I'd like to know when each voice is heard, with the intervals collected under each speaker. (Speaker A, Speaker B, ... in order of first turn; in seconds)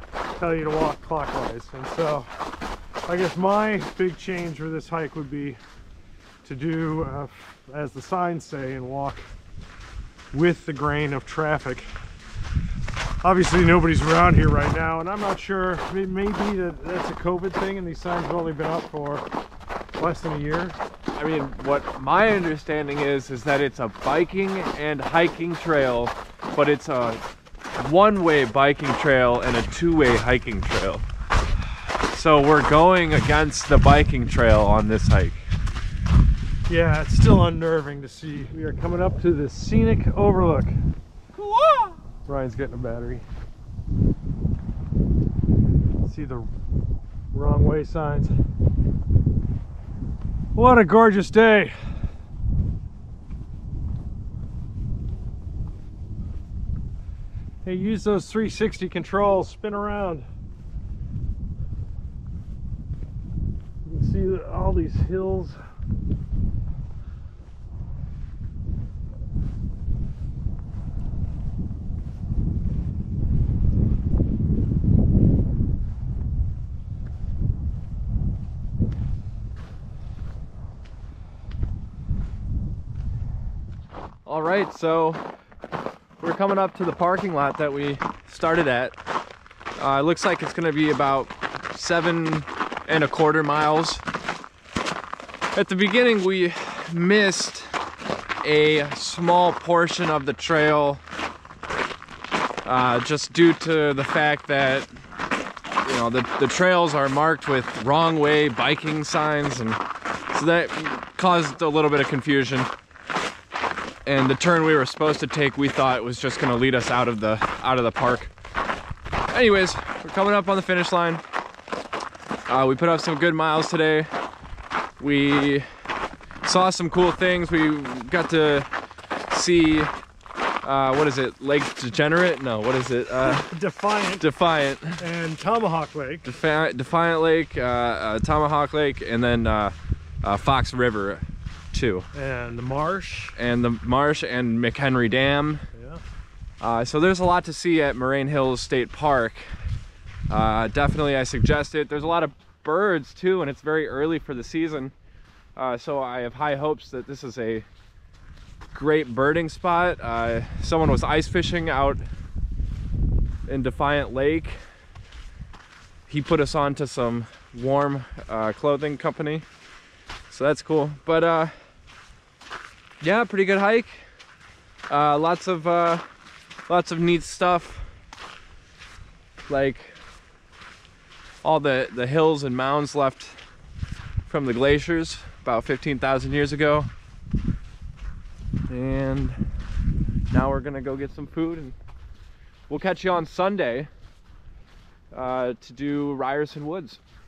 Speaker A: 0.4-2.3, 3.1-5.6, 6.4-9.3, 10.3-11.9, 13.2-19.2, 20.0-20.8, 36.7-40.8, 42.3-43.2, 46.0-46.5, 47.3-48.3, 50.5-51.8, 57.6-60.3, 63.9-65.6, 133.2-134.2, 135.0-136.3, 142.1-143.4, 145.7-146.0
Speaker B: 21.1-27.2, 27.8-31.1, 32.1-35.5, 41.4-42.0, 84.2-85.2, 86.2-89.0, 89.8-94.0, 95.5-97.8, 98.4-101.0, 102.7-104.9, 105.8-109.8, 110.3-112.7, 114.1-118.3, 119.3-121.2, 122.5-124.1, 125.0-125.7, 126.4-128.7, 129.3-129.9, 130.6-133.5, 134.2-135.0, 136.3-142.1, 143.4-145.7, 146.6-149.5, 150.3-154.9, 155.6-157.7, 158.7-162.0, 163.5-164.6, 166.1-169.5, 170.3-171.6, 173.0-174.1, 174.9-176.1, 176.7-177.9, 179.5-180.0, 181.4-183.4, 184.3-186.9, 188.7-189.4, 190.3-191.8, 192.7-193.9, 195.1-197.0